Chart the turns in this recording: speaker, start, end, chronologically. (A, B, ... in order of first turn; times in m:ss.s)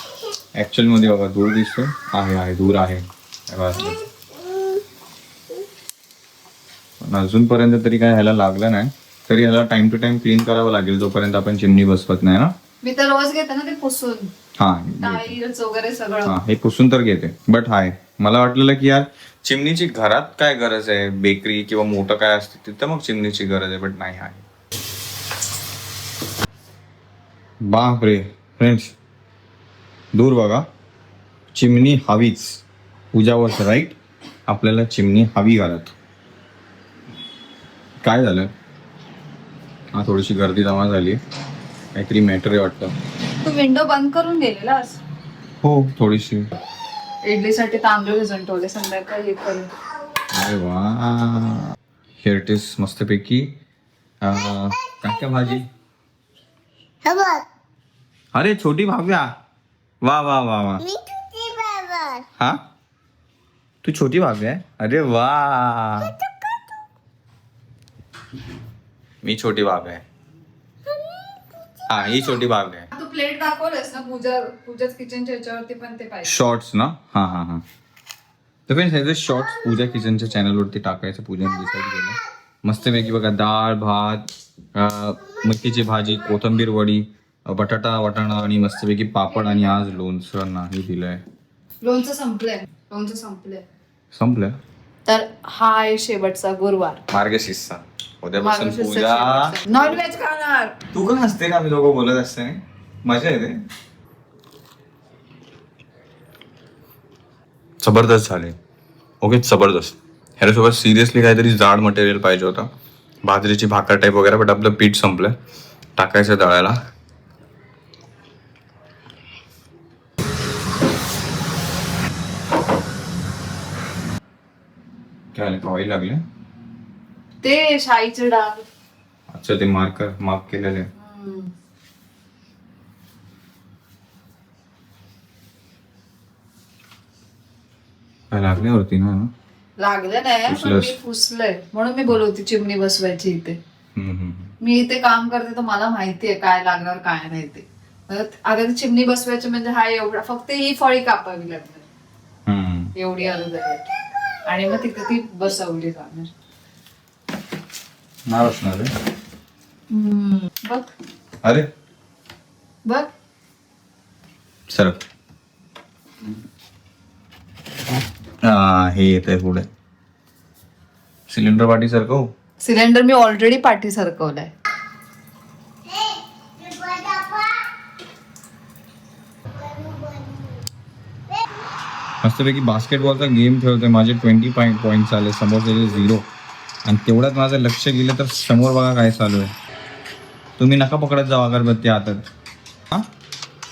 0:00.6-0:04.0 A
0:04.4-0:04.7 B
0:07.0-0:12.5 A
0:12.8-0:14.3 C
0:14.6-0:15.4 A
0:15.0-0:16.4 C
0:16.2-0:24.4 A
0:27.6-0:28.9 A
0:30.1-0:30.7 A
0:31.5-0:35.9 A
0:38.0-0:38.5 A
0:39.9-0:41.2 A
0:41.9-0:42.9 A
0:43.4-0:45.0 C
0:45.6-0:46.5 A
0:47.2-0:49.7 C
0:50.3-0:53.5 A
0:54.2-0:55.7 A
0:54.6-0:55.1 B
0:57.0-0:57.4 B
0:58.3-0:59.3 A
1:00.0-1:00.8 A
1:00.8-1:02.2 B
1:03.8-1:06.1 A
1:06.0-1:06.8 B
1:09.2-1:10.0 A
1:10.9-1:12.3 B
1:11.9-1:12.9 A
1:12.9-1:16.4 C
1:16.2-1:17.6 A
1:18.7-1:31.2 A
1:31.8-1:33.6 C
1:34.1-1:34.6 A
1:35.0-1:37.0 C
1:37.1-1:39.9 A
1:38.4-1:40.8 C
1:40.9-1:43.6 A
1:47.8-1:48.6 A
1:49.2-1:52.7 A
1:53.2-1:55.4 A
1:56.0-1:56.8 A
2:05.3-2:06.2 A
2:07.4-2:08.6 C
2:09.3-2:10.9 A
2:11.0-2:11.5 C
2:18.3-2:19.3 A
2:19.8-2:23.6 C
2:20.5-2:20.9 A
2:23.9-2:24.5 A
2:24.6-2:31.8 C
2:32.4-2:32.9 A
2:33.0-2:33.8 C
2:34.4-2:36.3 C
2:38.3-2:38.9 A
2:39.9-2:40.9 C
2:42.8-2:43.1 C
2:44.7-2:45.0 A
2:48.4-2:49.7 A
2:51.3-2:52.3 A
2:52.6-2:54.5 C
2:55.8-2:57.7 B
2:59.5-3:00.6 B
3:02.2-3:06.2 A
3:06.8-3:09.5 A
3:10.6-3:12.2 A